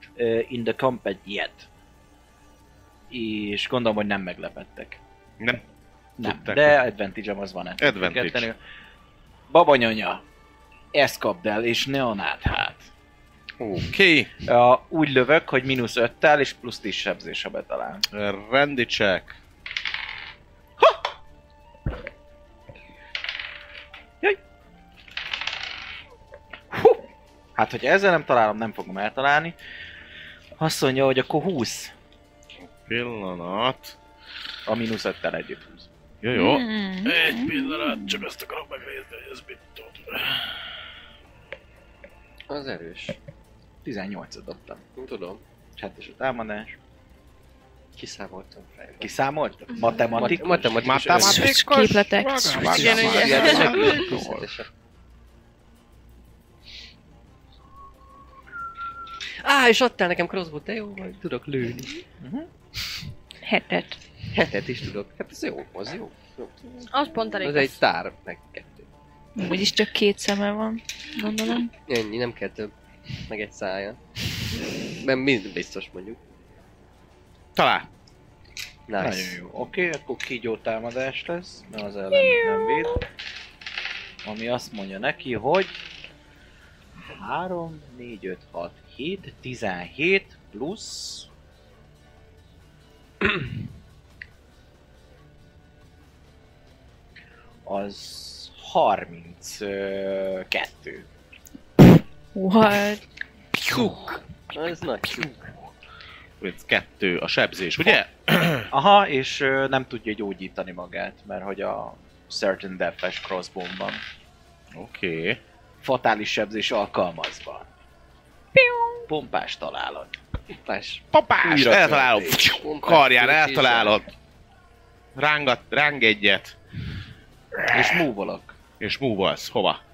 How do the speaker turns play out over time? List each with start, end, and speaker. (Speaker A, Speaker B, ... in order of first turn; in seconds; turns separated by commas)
Speaker A: 0.1-1.7, Speaker A: 3.1-5.0, Speaker A: 6.2-8.6, Speaker B: 6.2-6.8, Speaker B: 7.8-8.5, Speaker A: 9.5-10.2, Speaker A: 10.9-12.9, Speaker B: 13.7-14.3, Speaker A: 14.4-18.0, Speaker B: 18.1-19.4, Speaker A: 26.7-27.0, Speaker A: 27.6-29.5, Speaker A: 30.6-31.9, Speaker B: 32.6-34.0, Speaker A: 34.6-35.9, Speaker B: 36.2-40.5, Speaker C: 36.3-38.2, Speaker D: 42.5-43.2, Speaker A: 43.8-44.8, Speaker D: 45.0-45.4, Speaker A: 45.8-46.8, Speaker D: 48.0-49.1, Speaker A: 49.0-51.1, Speaker D: 50.1-51.5, Speaker B: 50.8-54.5, Speaker C: 51.1-53.6, Speaker E: 52.6-54.0, Speaker D: 52.9-54.7, Speaker D: 59.4-62.0, Speaker A: 62.2-62.5, Speaker C: 63.4-64.0, Speaker D: 64.3-66.5, Speaker E: 66.9-67.8, Speaker D: 67.4-68.8, Speaker C: 69.3-71.7, Speaker D: 71.9-72.7, Speaker D: 73.3-74.0, Speaker D: 75.0-76.2, Speaker B: 77.5-77.9, Speaker D: 78.9-79.4, Speaker A: 79.0-83.0, Speaker C: 82.2-82.8, Speaker A: 84.2-85.8, Speaker A: 87.0-91.3, Speaker A: 97.6-101.1, Speaker C: 102.3-103.0, Speaker D: 103.7-105.5, Speaker B: 106.4-108.7, Speaker A: 108.7-114.0, Speaker B: 114.7-115.4, Speaker A: 115.8-117.7, Speaker C: 118.5-119.0, Speaker A: 119.1-120.2, Speaker D: 120.7-121.0, Speaker B: 121.1-124.1, Speaker A: 121.4-122.6, Speaker D: 122.6-124.0, Speaker B: 125.2-126.5, Speaker A: 127.7-128.6, Speaker B: 128.8-129.8